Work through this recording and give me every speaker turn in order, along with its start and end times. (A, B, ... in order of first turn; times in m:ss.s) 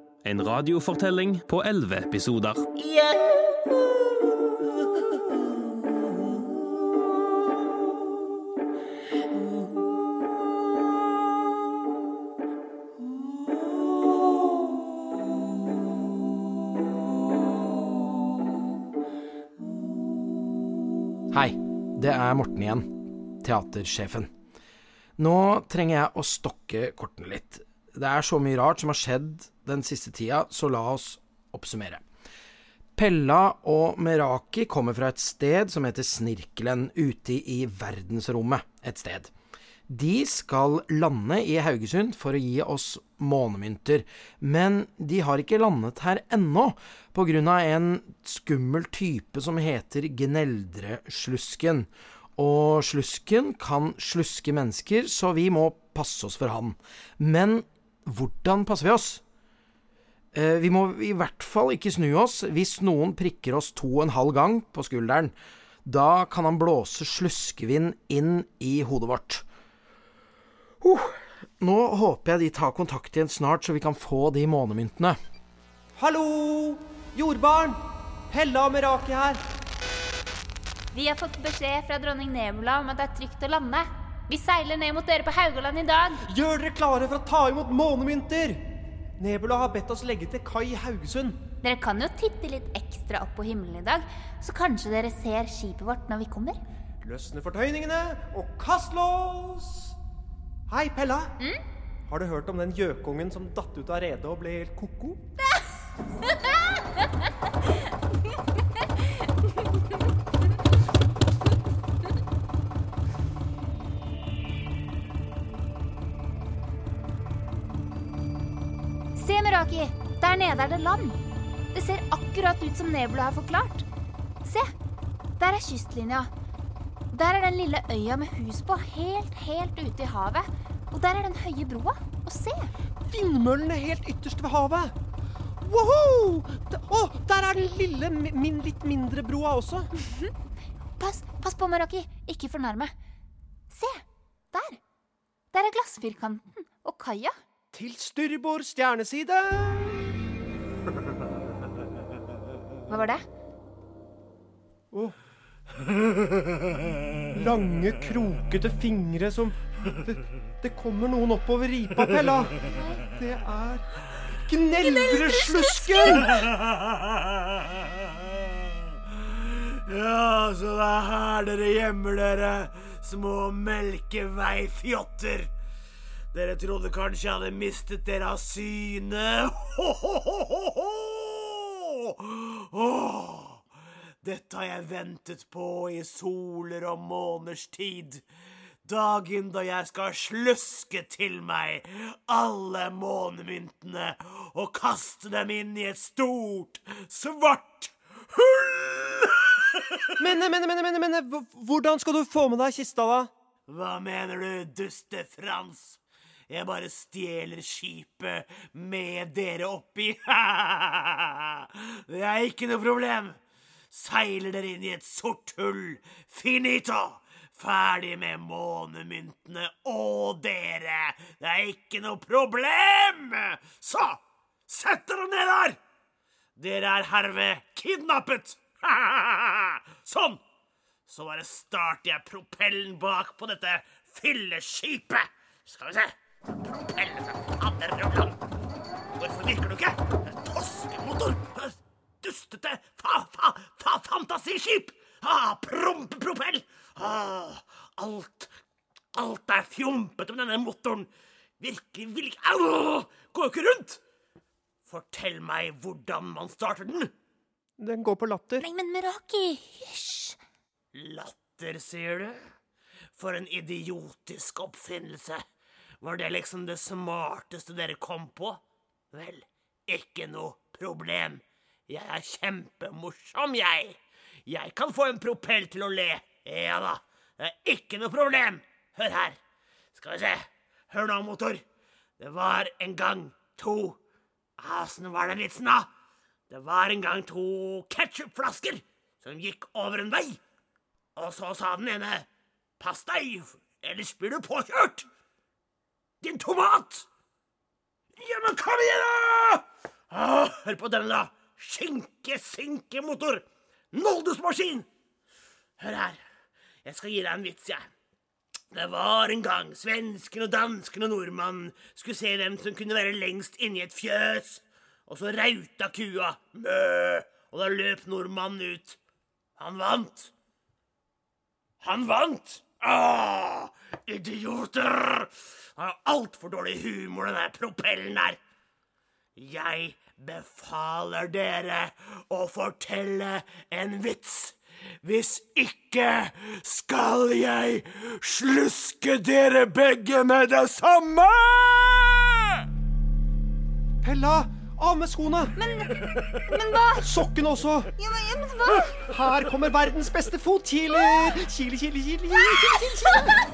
0:00.4-0:02.6 A
0:02.8-0:03.4 B
0:21.3-0:22.9 C
0:23.4-0:24.3 C
0:25.2-0:32.0 C
0:33.0-0:39.3 C
0:39.9-0:59.2 C
1:00.3-1:05.3 C
1:05.8-1:09.4 C
1:10.8-1:15.2 C
1:16.0-1:17.8 D
1:18.3-1:19.4 D
1:20.9-1:26.2 E
1:26.2-1:28.6 D
1:29.2-1:31.4 D
1:31.6-1:36.6 E
1:37.0-1:39.9 D
1:40.7-1:41.4 D
1:42.1-1:45.2 D
1:59.2-2:01.2 E
2:01.7-2:03.8 E
2:04.4-2:04.7 E
2:05.4-2:06.3 E
2:07.1-2:12.7 E
2:13.1-2:14.9 D
2:15.6-2:19.9 D
2:20.0-2:20.3 E
2:21.0-2:22.9 E
2:23.7-2:24.8 E
2:25.5-2:27.4 E
2:27.7-2:30.2 D
2:32.9-2:33.2 E
2:37.3-2:46.4 D
2:45.6-2:46.2 E
2:46.5-2:47.0 B
2:49.6-2:55.5 B
2:56.3-3:03.6 B
3:04.2-3:08.2 B
3:08.8-3:20.2 B
3:20.2-3:23.3 D
3:23.7-3:33.4 B
3:33.9-3:45.8 B
3:46.6-3:50.4 B
3:51.1-3:58.4 B
3:59.2-4:08.5 B
4:09.1-4:14.0 B
4:14.8-4:17.1 B
4:17.8-4:18.7 D
4:18.6-4:20.4 E
4:20.9-4:22.4 B
4:23.2-4:25.4 B
4:26.0-4:39.4 B
4:39.9-4:41.6 B
4:42.2-4:44.0 B
4:44.6-4:45.9 B
4:46.5-4:50.4 B
4:51.2-4:52.3 B
4:52.8-4:55.1 B
4:56.2-4:57.1 B
4:58.2-5:04.9 B
5:05.8-5:06.2 B
5:06.8-5:07.8 B
5:08.7-5:19.0 B
5:19.6-5:20.3 B
5:21.8-5:28.4 B
5:29.4-5:42.6 B
5:44.0-5:45.7 D
5:46.9-5:47.9 D
5:48.1-5:48.8 E
5:48.9-5:53.4 D